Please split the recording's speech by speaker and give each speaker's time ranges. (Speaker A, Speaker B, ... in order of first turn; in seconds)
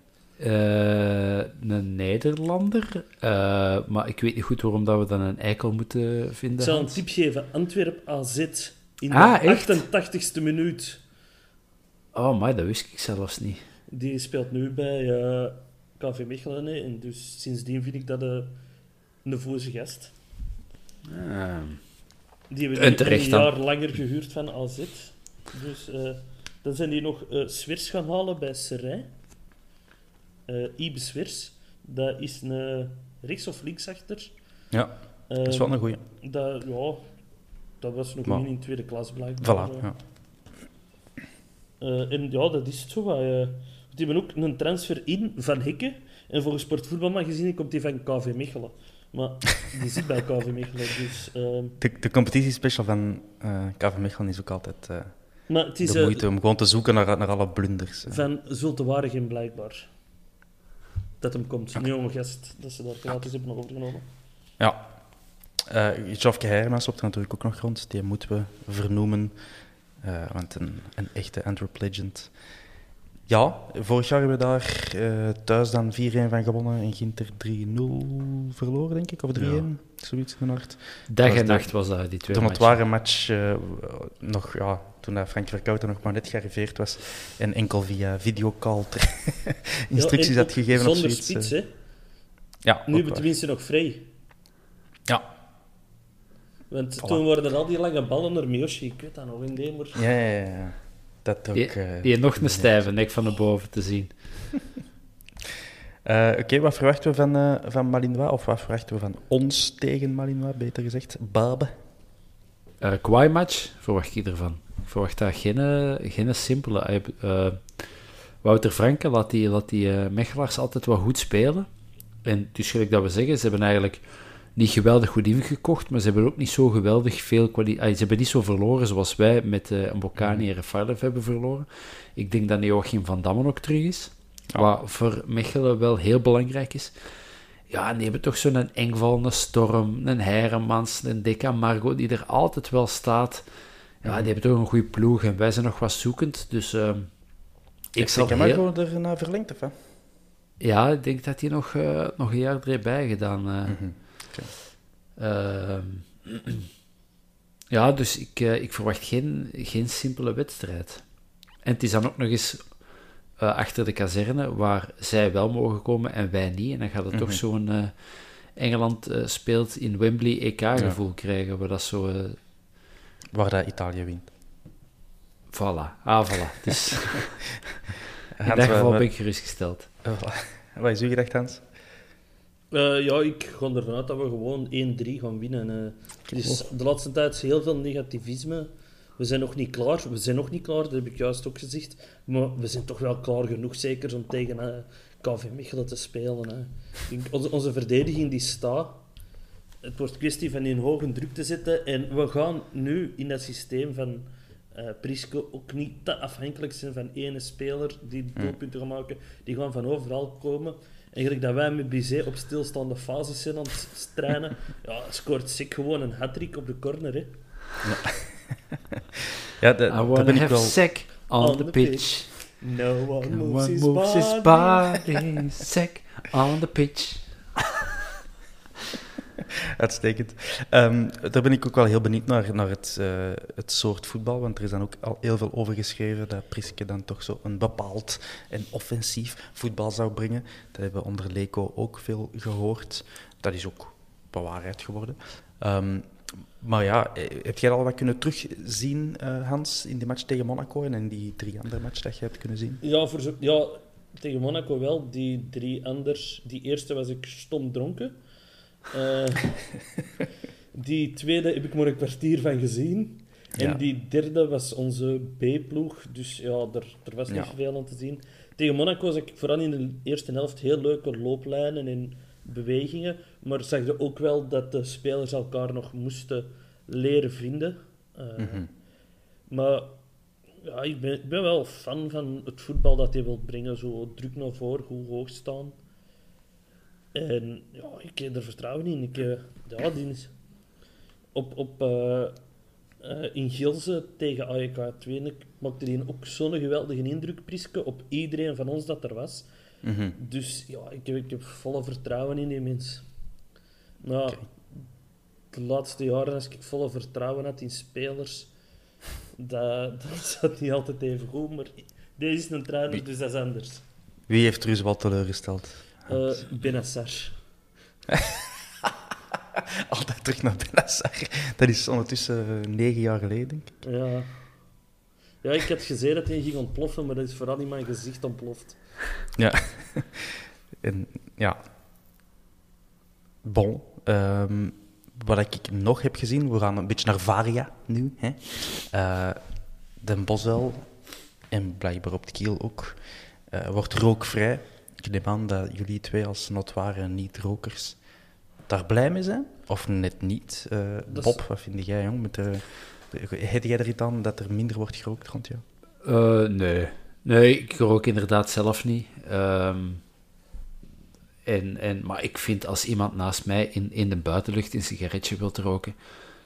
Speaker A: 0.4-7.0, 9.1-9.8, 12.1-13.6, 21.1-21.9, 22.8-23.5, 79.3-79.7, 81.1-82.8, 101.5-104.5, 112.8-121.7, 122.2-136.9, 137.7-143.4, 144.0-147.1, 147.9-148.6, 150.6-154.0, 155.2-156.7, 157.7-161.0, 161.6-162.8, 163.4-172.4, 175.5-177.5, 178.4-179.9, 219.9-222.5, 223.3-227.4, 356.0-360.0, 361.4-366.0
Speaker B: 6.6-11.0, 13.9-18.6, 19.2-20.1, 22.5-29.1, 30.5-34.3, 35.3-37.1, 37.8-39.9, 41.8-51.8, 55.5-56.2, 58.1-59.9, 61.2-64.1, 89.9-91.7, 92.9-94.1, 96.7-100.0, 182.7-199.0, 199.8-217.3, 221.4-225.0, 252.8-258.2, 258.9-259.6, 260.7-278.6, 279.5-280.0, 280.6-285.8, 287.1-290.3, 291.3-292.4, 293.0-299.5, 300.2-303.1, 304.0-304.5, 305.5-308.5, 309.4-313.8, 316.1-317.4, 323.8-324.6, 325.4-329.0, 351.1-351.4
Speaker C: 34.7-36.0, 39.4-40.0, 51.8-58.2, 64.6-69.3, 70.0-72.3, 73.3-91.5, 92.6-93.3, 100.0-102.9, 106.0-111.8, 130.2-130.4, 144.0-144.3, 148.0-149.8, 153.7-154.5, 167.1-167.4, 173.3-174.3, 178.4-179.1, 180.0-181.6, 217.8-218.6, 219.6-220.8, 229.8-252.8, 263.6-263.8, 278.4-278.7, 299.8-300.2, 314.3-316.4, 318.1-318.9, 319.8-323.8, 329.4-331.6, 333.4-348.0, 348.6-355.6